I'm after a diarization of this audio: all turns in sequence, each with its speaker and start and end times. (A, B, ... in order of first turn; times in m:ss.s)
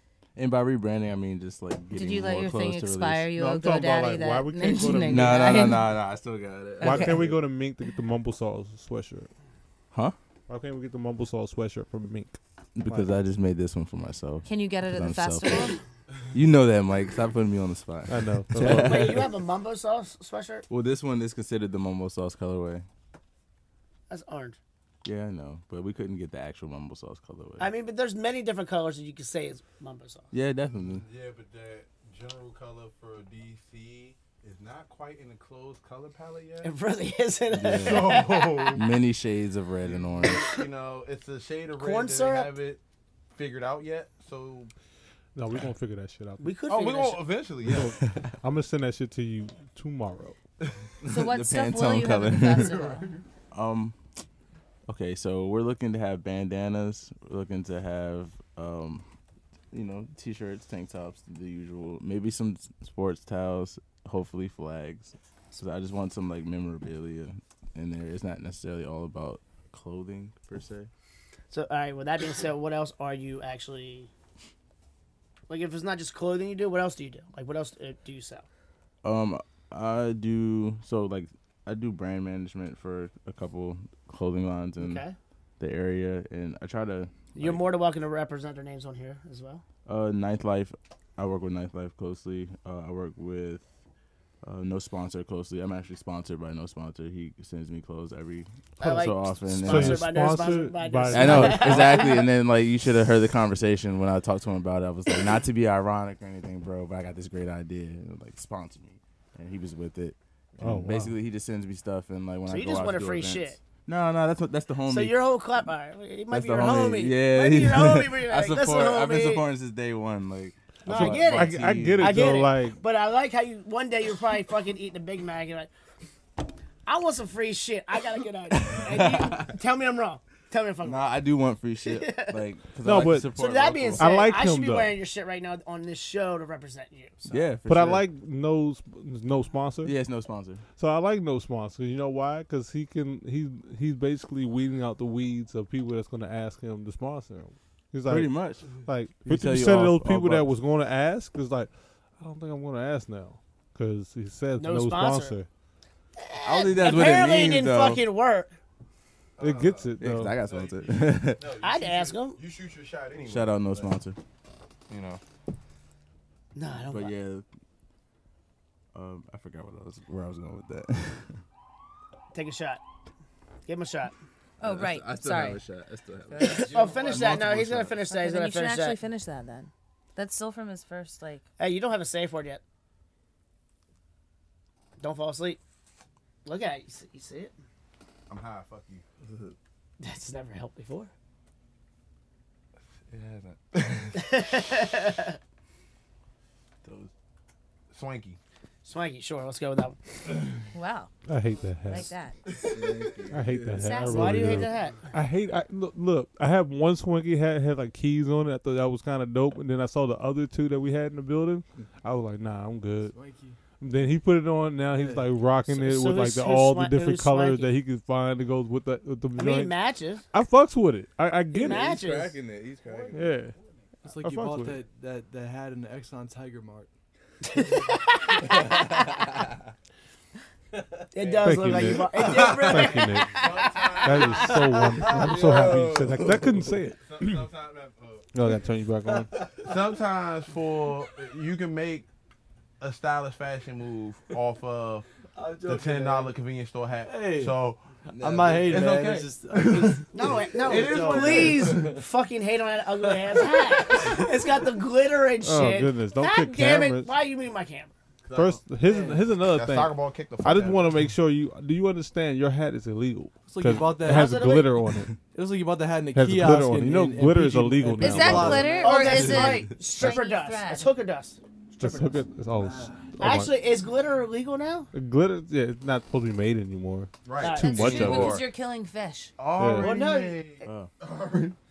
0:00.4-0:03.3 A
0:01.9-0:05.9 B
0:03.4-0:05.7 C
0:05.0-0:07.4 A
0:06.8-0:07.3 B
0:06.8-0:09.3 C
0:10.5-0:13.1 C
0:12.8-0:15.8 A
0:14.4-0:15.8 B
0:16.3-0:19.3 A
0:18.1-0:19.2 C
0:18.6-0:20.6 D
0:20.7-0:22.9 A
0:24.1-0:24.6 D
0:25.0-0:27.7 A
0:27.6-0:30.3 D
0:30.3-0:31.1 A
0:30.8-0:36.7 E
0:36.6-0:38.8 D
0:37.5-0:40.5 A
0:37.6-0:39.0 E
0:39.8-0:42.8 E
0:41.8-0:42.6 D
0:43.3-0:44.7 E
0:45.4-0:46.5 C
0:46.4-0:47.4 D
0:46.7-0:48.0 E
0:47.6-0:50.4 C
0:48.0-0:48.3 A
0:51.1-0:53.1 B
0:51.1-0:52.9 A
0:52.8-0:53.2 E
0:53.5-0:54.0 A
0:54.9-0:59.1 A
0:59.7-1:10.9 A
1:11.5-1:14.1 D
1:15.5-1:18.5 D
1:19.0-1:25.0 A
1:24.8-1:25.2 D
1:25.6-1:27.6 A
1:27.4-1:29.6 D
1:29.9-1:33.7 A
1:34.4-1:40.3 A
1:38.8-1:42.3 D
1:39.6-1:42.2 C
1:41.1-1:55.2 A
1:50.6-1:51.2 C
1:52.5-1:53.6 D
1:54.9-1:59.4 D
1:56.3-2:02.4 A
2:00.8-2:05.7 D
2:00.9-2:02.8 C
2:06.9-2:11.1 D
2:08.5-2:09.6 A
2:10.8-2:14.1 A
2:11.8-2:12.4 D
2:12.8-2:13.3 C
2:13.3-2:17.5 D
2:14.0-2:14.9 C
2:17.3-2:18.0 A
2:17.7-2:19.9 C
2:19.8-2:20.6 A
2:20.8-2:35.5 C
2:28.1-2:30.5 A
2:34.6-2:35.4 D
2:36.2-2:38.5 D
2:36.4-2:38.0 A
2:39.4-2:44.0 E
2:39.4-2:40.4 C
2:40.0-2:41.4 A
2:41.6-2:42.4 D
2:43.2-2:44.2 A
2:44.9-2:45.2 E
2:46.5-2:47.1 D
2:46.9-2:47.4 A
2:48.9-2:51.4 A
2:52.3-2:52.8 D
2:53.6-2:54.2 D
2:54.6-2:55.6 B
2:54.6-2:57.9 A
2:56.3-2:56.8 B
2:56.4-2:59.0 D
2:56.5-2:57.8 E
2:58.0-3:01.4 B
3:01.6-3:02.6 D
3:05.0-3:05.6 D
3:06.4-3:07.5 D
3:08.3-3:09.0 E
3:09.2-3:09.5 A
3:10.0-3:11.1 D
3:13.1-3:14.0 E
3:13.4-3:14.2 A
3:14.2-3:15.4 D
3:16.8-3:17.1 A
3:17.9-3:18.4 E
3:18.8-3:20.2 D
3:20.7-3:21.2 B
3:21.3-3:22.1 C
3:21.8-3:22.4 B
3:22.5-3:24.6 A
3:23.3-3:33.2 C
3:23.8-3:24.6 B
3:24.1-3:25.1 D
3:33.1-3:33.6 F
3:33.8-3:39.7 C
3:34.9-3:35.3 F
3:35.6-3:37.7 D
3:39.4-3:40.2 D
3:40.3-3:41.9 C
3:41.5-3:42.4 D
3:41.6-3:43.3 A
3:42.8-3:43.8 E
3:43.1-3:43.5 C
3:44.0-3:46.9 F
3:44.2-3:44.8 C
3:47.5-3:48.9 D
3:51.1-3:54.5 D
3:51.2-3:56.4 E
3:51.4-3:57.4 C
3:55.1-3:56.6 A
3:57.0-3:58.3 E
3:58.3-3:59.3 C
3:59.0-3:59.8 F
3:59.6-4:02.1 E
4:02.8-4:05.1 E
4:05.4-4:06.4 F
4:05.6-4:07.8 E
4:07.0-4:07.6 F
4:08.1-4:08.8 A
4:08.2-4:10.1 F
4:08.6-4:10.0 E
4:10.1-4:17.9 D
4:10.6-4:11.9 E
4:10.6-4:12.0 F
4:15.4-4:17.1 C
4:18.2-4:21.0 E
4:18.3-4:25.2 C
4:23.5-4:24.7 F
4:24.0-4:24.7 D
4:25.3-4:29.0 F
4:26.1-4:28.8 C
4:28.0-4:30.9 B
4:28.7-4:32.2 D
4:29.0-4:30.1 A
4:31.8-4:33.5 C
4:32.6-4:33.1 F
4:33.2-4:34.9 D
4:34.9-4:38.4 C
4:37.2-4:38.4 E
4:37.4-4:38.1 D
4:37.6-4:39.3 B
4:37.8-4:38.4 A
4:39.4-4:41.5 E
4:39.6-4:39.9 C
4:39.8-4:40.7 D
4:40.6-4:40.9 A